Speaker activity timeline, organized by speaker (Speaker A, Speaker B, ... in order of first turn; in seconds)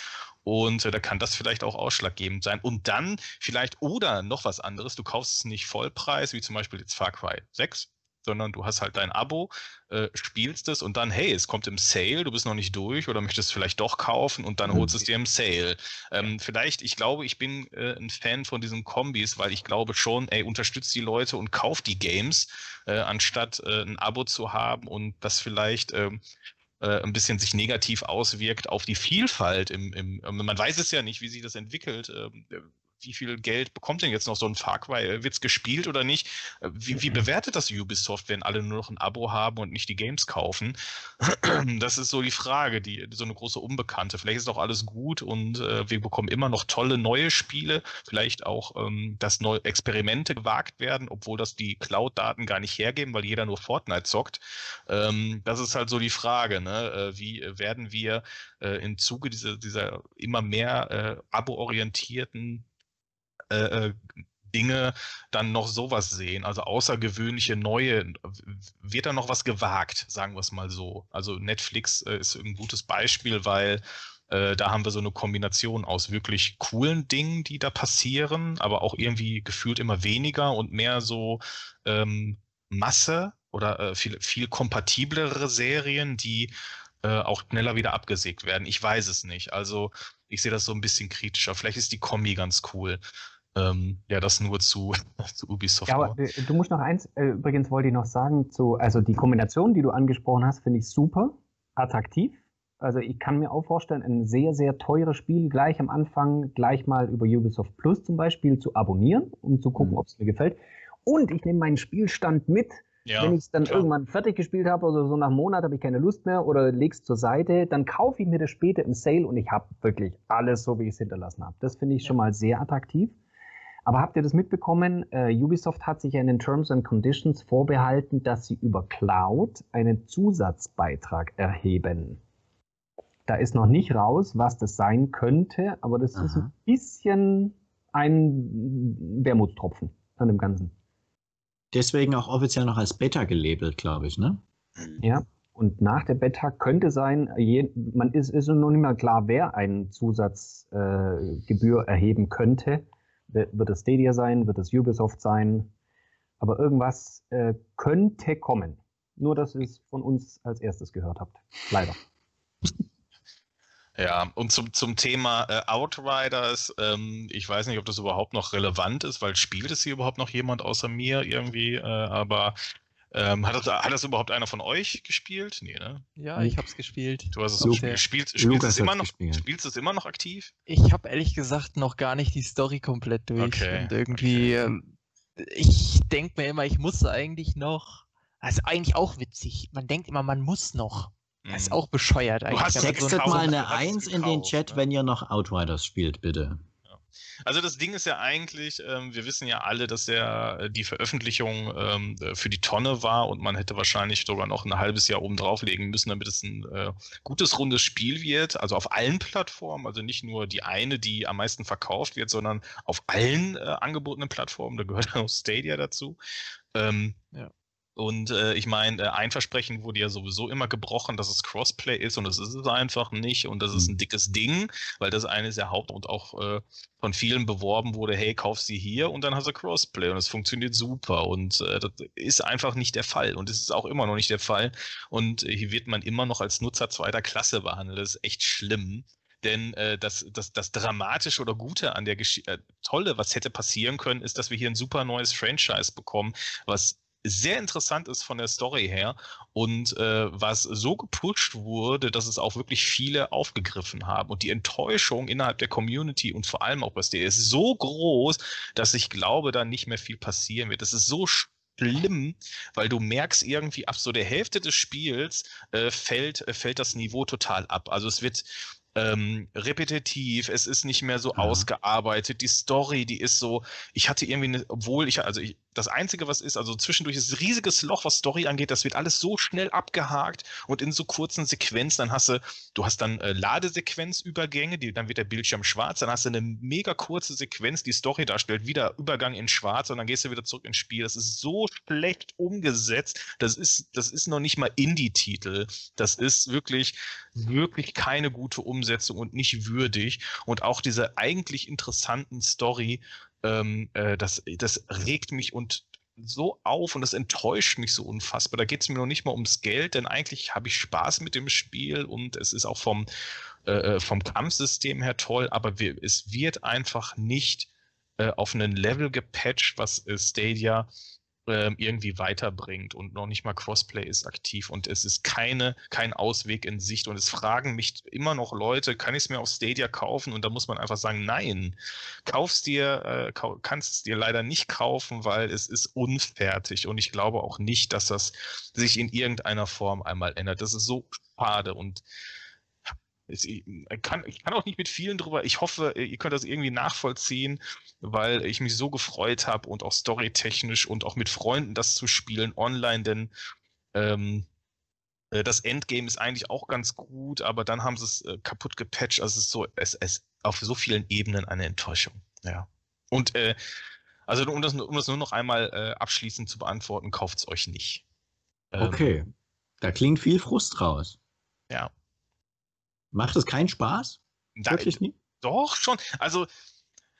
Speaker A: 0.5-26.2, 26.8-62.6, 63.5-86.5, 87.0-93.0, 93.5-96.2, 113.1-113.9, 164.0-172.6, 173.1-176.1, 177.3-180.5, 183.4-184.5, 191.5-191.8, 192.5-194.8, 196.9-216.2, 216.7-217.2, 218.0-313.1, 313.7-320.9, 321.5-342.0, 343.3-353.3, 353.9-354.5, 355.3-368.0, 368.7-369.1, 374.6-376.5
Speaker B: 14.7-14.9, 136.2-136.5, 141.7-144.4, 177.6-179.4, 192.8-196.6, 271.4-271.7, 368.8-369.3, 369.8-371.2, 373.1-375.1
Speaker C: 95.9-123.2, 123.9-132.2, 133.3-140.7, 145.0-155.7, 156.4-162.0
Speaker D: 176.2-178.0, 180.7-193.6